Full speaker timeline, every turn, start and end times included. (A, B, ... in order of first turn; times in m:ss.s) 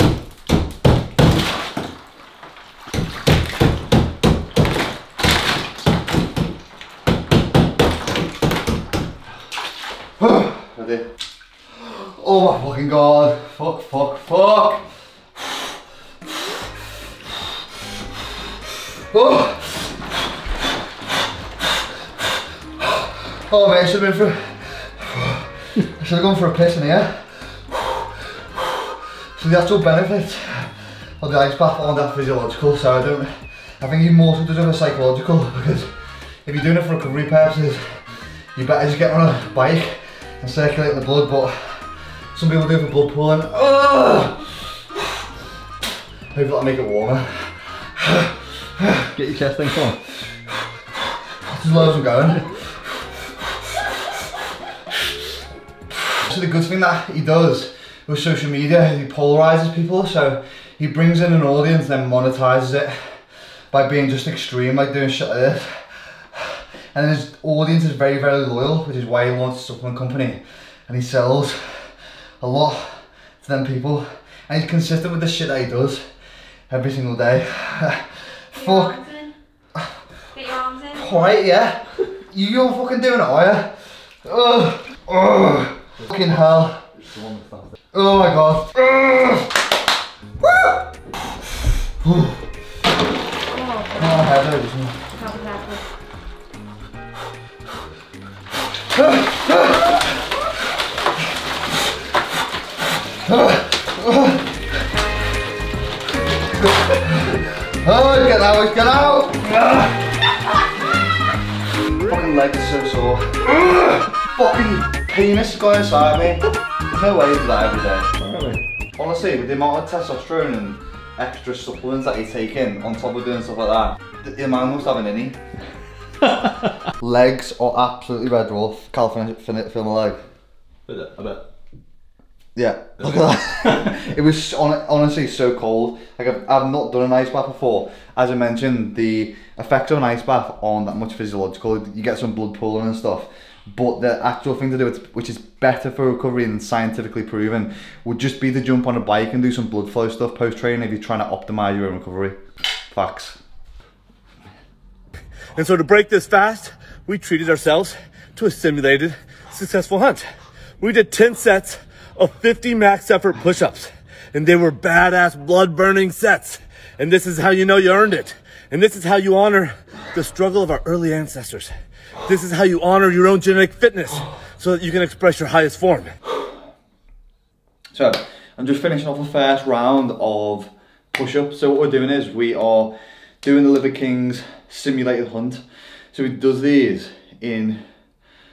0:10.2-0:11.1 A
0:11.7-0:14.8 A
0:19.0-0:20.1 A
0:22.8-0:38.0 A
0:38.5-0:45.0 A
0:46.3-0:50.7 A
0:51.3-0:54.2 A
0:55.9-1:03.2 A
1:03.7-1:16.0 A
1:16.7-1:19.2 A
1:18.8-1:19.3 B
1:20.4-1:20.9 B
1:20.8-1:23.7 A
1:24.2-1:26.8 A
1:27.1-1:27.7 C
1:27.9-1:29.6 A
1:30.4-1:30.8 A
1:32.0-1:32.4 A
1:33.5-1:34.0 B
1:33.8-1:35.0 A
1:35.2-1:35.8 B
1:38.9-1:40.1 A
1:43.2-1:44.5 A
1:46.6-1:50.6 A
1:52.0-1:58.1 A
1:58.2-1:58.6 C
1:59.0-2:05.4 A
2:06.8-2:10.2 A
2:10.9-2:11.4 C
2:12.6-2:32.4 A
2:13.0-2:13.8 C
2:32.9-2:33.4 A
2:35.6-2:40.3 D
2:40.8-2:43.8 D
2:44.4-2:51.7 D
2:52.2-2:56.1 D
2:57.9-3:07.8 A